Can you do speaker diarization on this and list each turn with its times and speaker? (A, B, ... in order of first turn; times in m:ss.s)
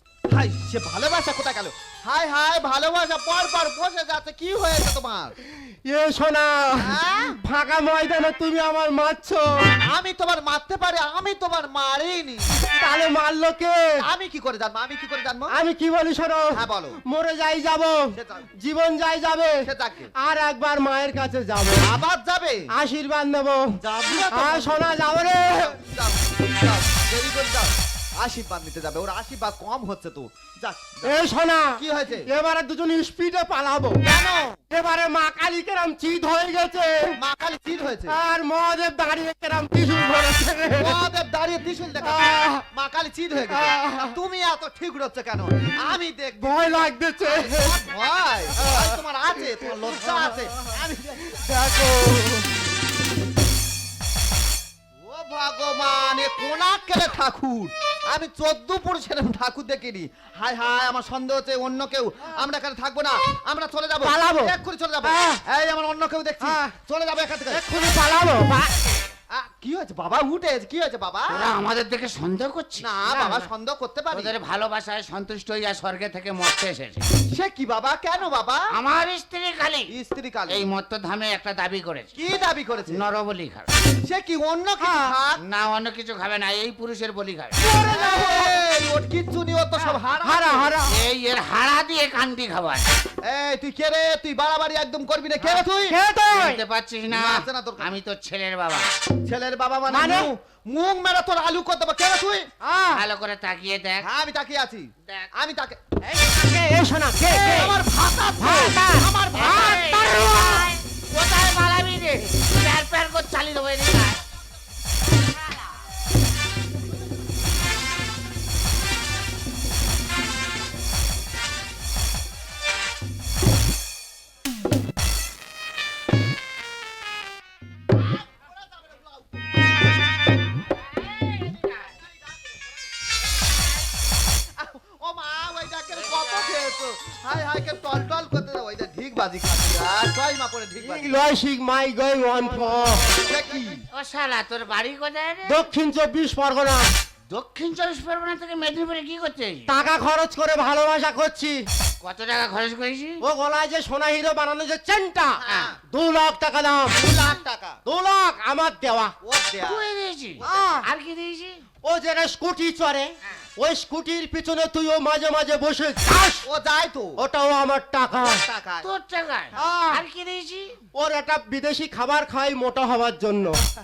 0:00.3-0:05.4 A
0:05.8-0:09.7 B
0:06.8-0:07.4 A
0:09.9-0:12.5 A
0:12.8-0:13.8 B
0:14.0-0:15.5 A
0:15.5-0:19.6 B
0:16.6-0:17.0 A
0:18.2-0:18.4 A
0:19.6-0:20.1 A
0:20.2-0:21.8 B
0:21.8-0:22.7 A
0:22.7-0:25.7 B
0:23.8-0:31.2 A
0:31.1-0:34.0 B
0:31.8-0:32.3 A
0:34.0-0:34.6 A
0:34.7-0:37.2 B
0:37.2-0:38.2 A
0:38.1-0:41.0 B
0:40.7-0:46.7 A
0:42.0-0:42.6 B
0:43.5-0:44.1 B
0:46.4-0:47.8 B
0:47.2-0:51.5 A
0:48.6-0:49.0 B
0:51.4-0:52.5 B
0:55.0-1:07.6 A
1:04.0-1:05.4 B
1:06.4-1:06.7 B
1:07.5-1:08.9 B
1:09.3-1:11.4 A
1:11.3-1:12.9 C
1:12.8-1:14.3 A
1:13.1-1:13.5 B
1:14.1-1:17.0 C
1:17.3-1:18.6 A
1:18.7-1:19.9 C
1:19.9-1:20.6 A
1:20.5-1:22.1 C
1:22.2-1:23.0 A
1:22.9-1:23.7 C
1:24.1-1:25.4 A
1:24.8-1:25.1 B
1:25.4-1:27.6 C
1:27.6-1:30.8 A
1:27.9-1:28.5 B
1:30.2-1:30.9 B
1:30.9-1:32.9 C
1:33.3-1:36.0 A
1:35.9-1:36.6 B
1:36.3-1:38.8 C
1:37.1-1:37.9 A
1:39.3-1:42.5 A
1:39.9-1:40.3 B
1:42.6-1:43.0 B
1:42.9-1:44.1 C
1:44.0-1:45.8 A
1:46.1-1:47.8 B
1:47.4-1:50.0 A
1:48.4-1:50.7 B
1:49.3-1:54.2 C
2:08.4-2:09.2 A
2:14.6-2:21.1 A
2:20.8-2:23.0 B
2:23.1-2:23.8 A
2:23.9-2:25.6 C
2:25.5-2:26.8 B
2:27.3-2:29.7 C
2:29.7-2:31.6 B
2:32.0-2:33.2 C
2:33.2-2:35.4 B
2:35.4-2:35.8 A
2:35.9-2:37.0 B
2:36.9-2:37.8 A
2:37.9-2:39.1 B
2:39.2-2:39.8 A
2:39.6-2:41.6 C
2:40.4-2:40.9 B
2:41.8-2:46.4 B
2:46.4-2:47.2 A
2:47.2-2:48.4 B
2:48.2-2:48.9 A
2:48.8-2:50.8 C
2:49.6-2:50.0 B
2:50.9-2:53.6 B